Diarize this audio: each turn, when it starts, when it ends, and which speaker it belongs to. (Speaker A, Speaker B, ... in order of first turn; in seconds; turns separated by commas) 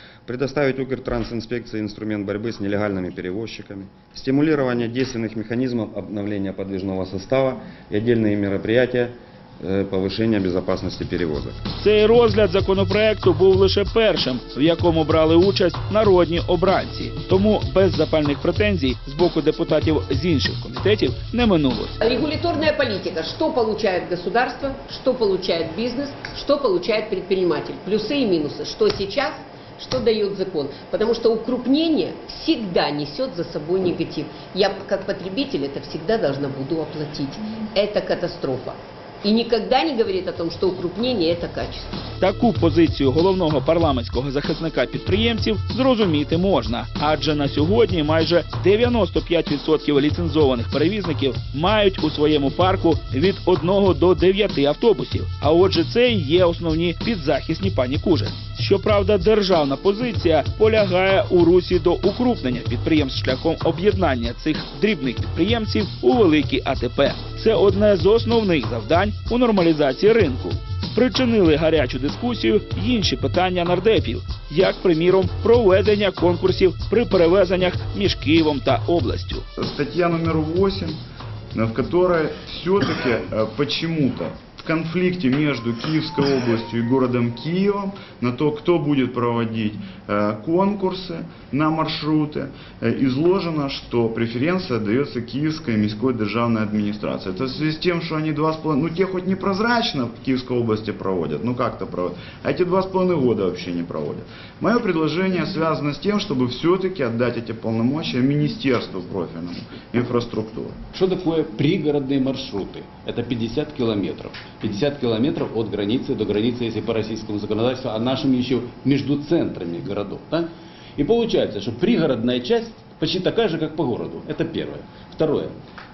Speaker A: 0.2-11.6, Speaker B: 11.8-22.0, Speaker C: 22.0-41.9, Speaker B: 42.2-79.5, Speaker D: 79.5-81.0, Speaker D: 81.5-110.8, Speaker E: 110.9-125.5